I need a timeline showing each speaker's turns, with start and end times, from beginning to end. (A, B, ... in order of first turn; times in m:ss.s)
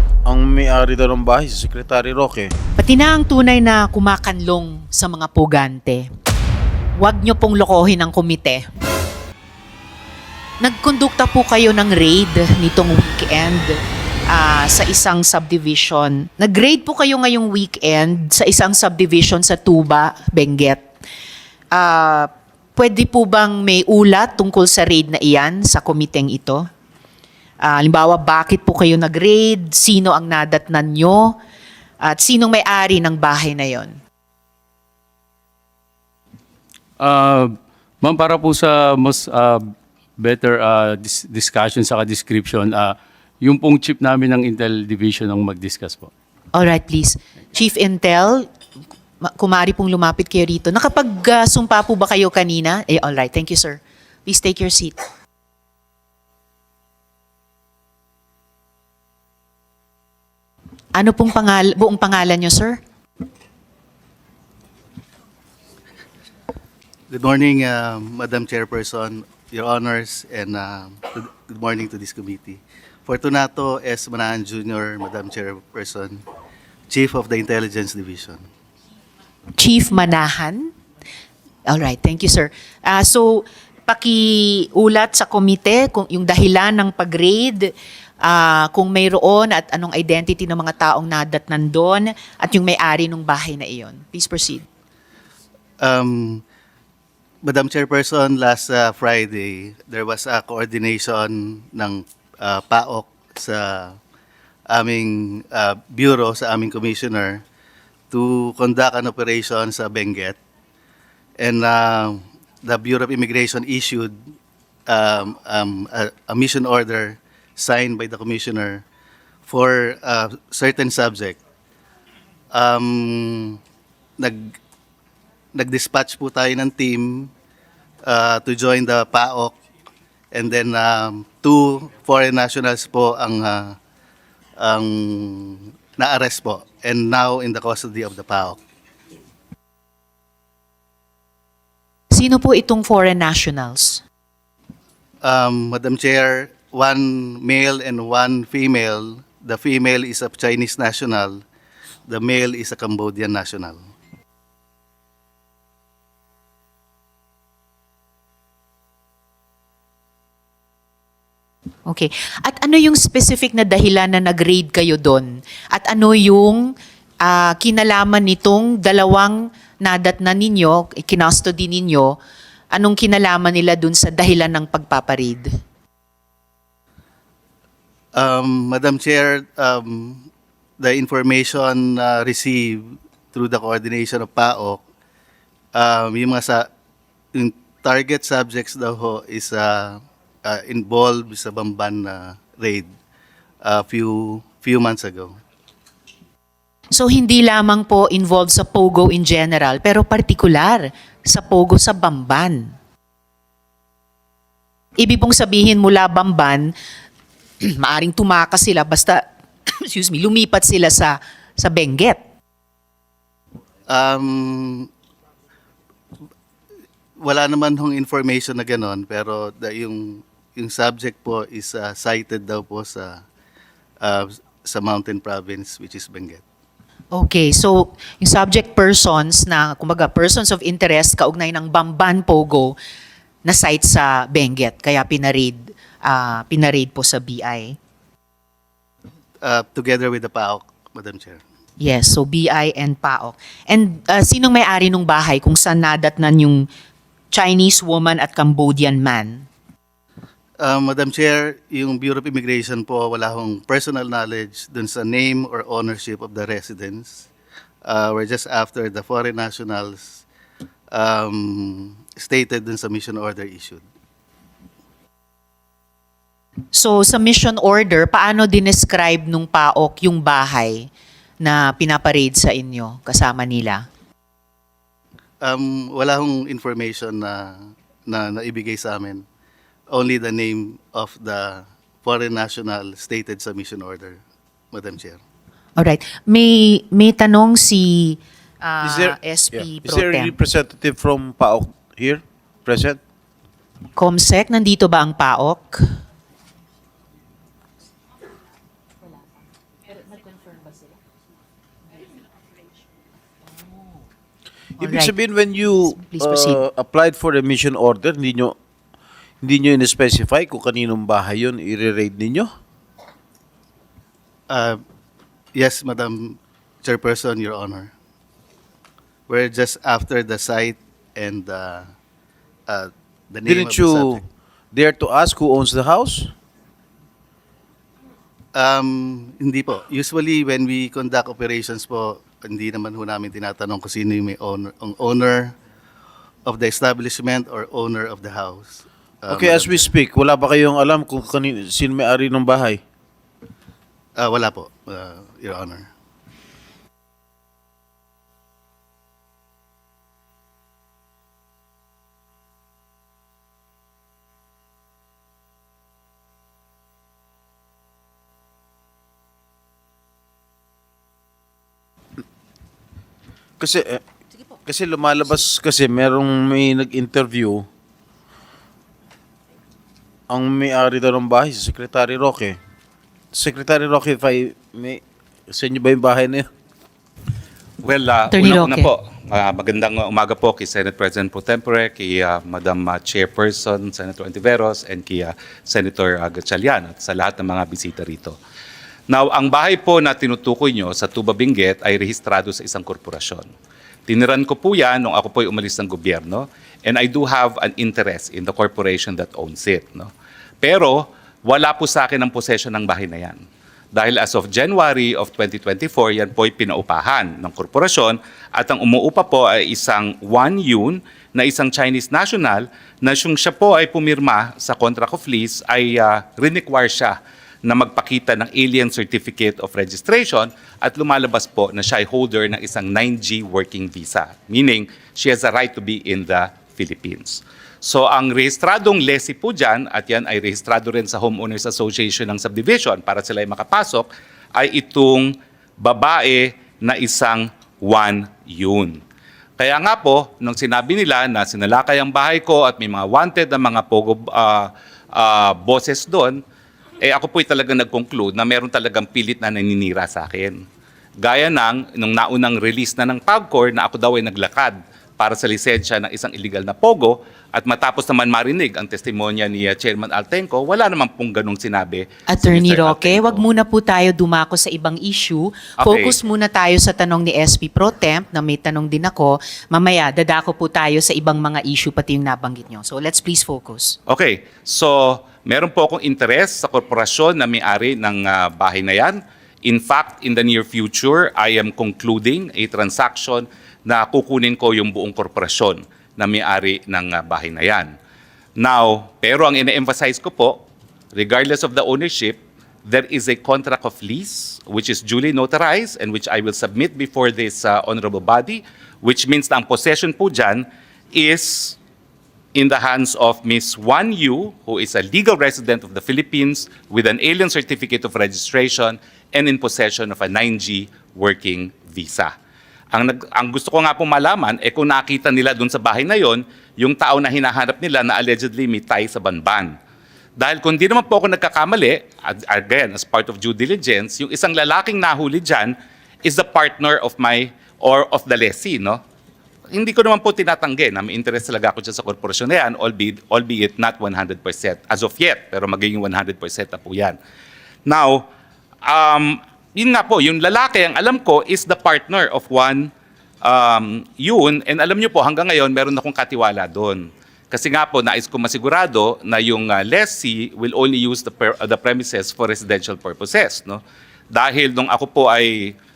0:00.2-0:02.5 A
0:02.8-0:06.0 B
0:06.9-0:08.6 B
0:10.6-0:20.8 B
0:21.7-0:26.6 B
0:27.6-0:31.4 B
0:32.0-0:34.0 B
0:37.0-0:46.1 C
0:46.5-0:48.5 B
0:49.2-0:55.0 B
1:00.9-1:02.8 B
1:07.1-1:16.2 D
1:16.9-1:18.4 D
1:19.6-1:20.7 B
1:21.6-1:34.6 B
1:35.8-1:36.4 D
1:37.4-1:44.0 D
1:44.7-1:47.4 D
1:48.1-1:50.4 D
1:51.4-1:54.2 D
1:54.9-1:58.8 D
1:59.4-2:01.4 D
2:02.5-2:03.6 D
2:04.2-2:04.6 D
2:05.5-2:07.3 D
2:08.0-2:09.5 D
2:10.3-2:13.8 D
2:14.6-2:18.6 D
2:22.1-2:24.0 B
2:25.2-2:31.4 D
2:32.1-2:33.8 D
2:41.9-2:52.2 B
2:52.7-2:55.5 B
2:58.1-3:00.3 D
3:00.8-3:04.8 D
3:05.7-3:06.7 D
3:07.3-3:12.9 D
3:13.6-3:15.4 D
3:16.9-3:22.7 B
3:25.0-3:26.7 B
3:27.6-3:32.2 B
3:33.9-3:34.9 D
3:37.2-3:43.2 D
3:44.0-3:46.4 D
3:47.1-3:52.8 B
3:53.4-3:57.8 B
3:59.4-4:01.4 D
4:01.8-4:06.7 B
4:07.3-4:09.4 B
4:10.6-4:17.3 D
4:17.8-4:20.2 D
4:20.9-4:23.8 D
4:26.7-4:30.9 B
4:31.4-4:33.8 B
4:35.4-4:39.2 D
4:39.9-4:44.2 D
4:44.7-4:45.2 D
4:45.8-4:50.3 B
4:48.8-4:53.0 A
4:54.0-4:55.8 B
5:04.8-5:08.6 A
5:04.8-5:05.2 B
5:05.9-5:06.6 B
5:09.4-5:12.5 A
5:14.5-5:14.8 D
5:15.5-5:17.9 D
5:19.3-5:21.9 D
5:22.7-5:24.2 D
5:23.4-5:26.3 A
5:28.5-5:35.5 D
5:36.4-5:39.9 D
5:39.3-5:42.8 A
5:44.2-5:45.9 D
6:03.6-6:04.0 A
6:04.5-6:07.7 A
6:10.3-6:12.6 A
6:13.3-6:16.5 A
6:17.8-6:28.4 E
6:18.3-6:18.9 B
6:29.1-6:33.5 E
6:34.1-6:40.1 E
6:40.6-6:43.4 E
6:43.9-7:19.0 E
7:19.6-7:26.4 E
7:27.0-7:30.6 E
7:31.2-7:43.4 E
7:42.3-7:54.0 B
7:45.8-7:46.1 E
7:54.1-8:07.9 E
8:08.6-8:10.6 E
8:11.1-8:21.8 E
8:22.5-8:32.3 E
8:32.9-8:39.7 E
8:40.4-8:49.0 E
8:49.7-8:57.2 E
8:57.8-8:58.2 E
8:58.8-9:02.9 E
9:03.4-9:13.8 E
9:14.3-9:15.7 E